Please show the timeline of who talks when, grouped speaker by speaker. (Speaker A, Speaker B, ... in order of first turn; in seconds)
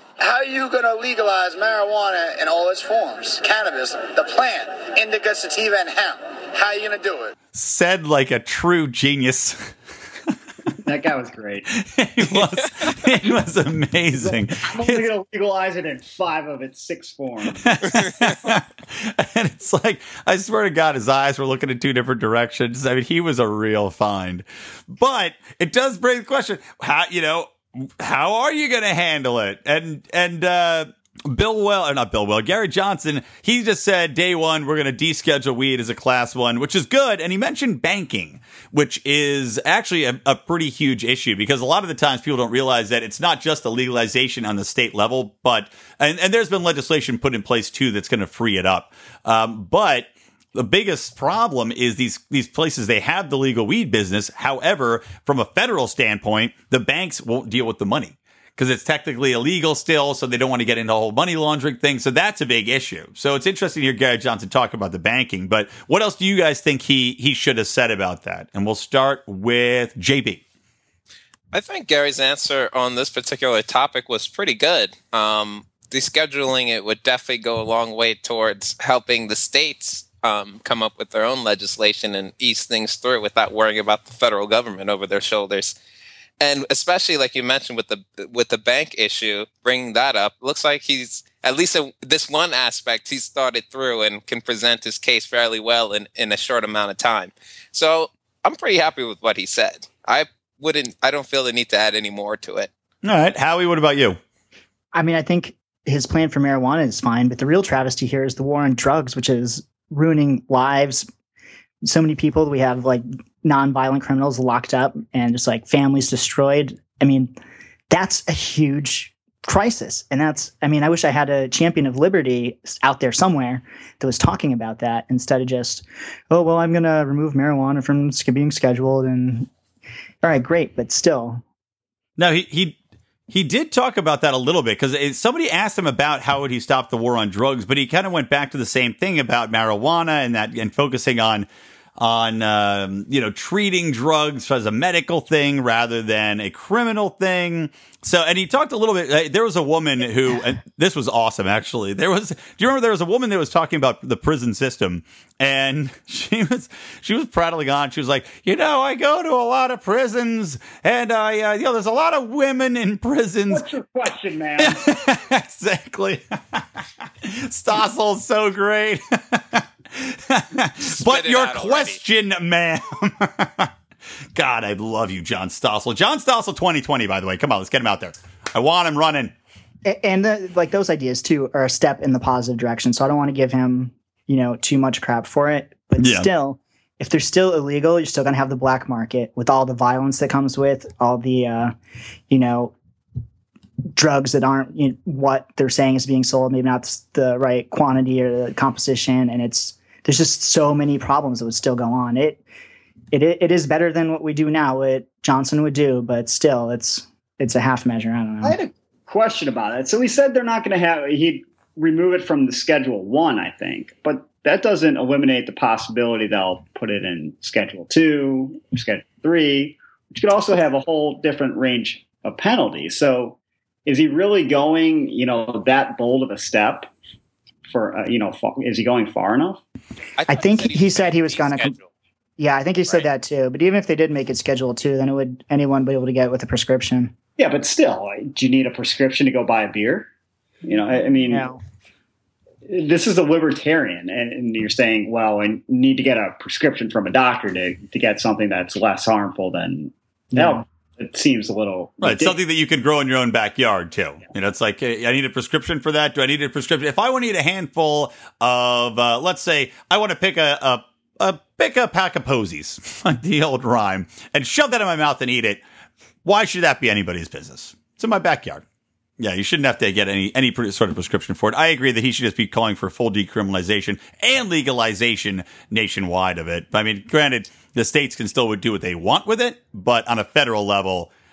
Speaker A: 0.2-7.3
Speaker B: 7.5-9.7, 11.8-15.0, 17.6-70.4, 103.0-104.2, 132.2-132.8, 133.3-163.7, 164.6-166.6, 167.2-173.7, 174.4-179.3, 186.0-186.3, 252.0-265.6, 266.2-268.6, 269.2-281.1
Speaker C: 10.8-11.7, 14.2-18.0, 163.5-164.9, 208.4-226.9, 227.7-229.6, 237.4-240.1, 240.6-241.5, 242.7-252.4
Speaker D: 71.5-85.8, 86.4-102.7, 170.8-172.0, 230.2-231.9
Speaker E: 104.9-111.1, 111.8-117.3, 117.9-129.5, 130.2-131.4, 179.8-191.7, 192.3-192.7, 193.9-202.4, 203.1-208.6, 230.3-231.7, 232.4-237.1, 241.3-241.6, 250.3-250.6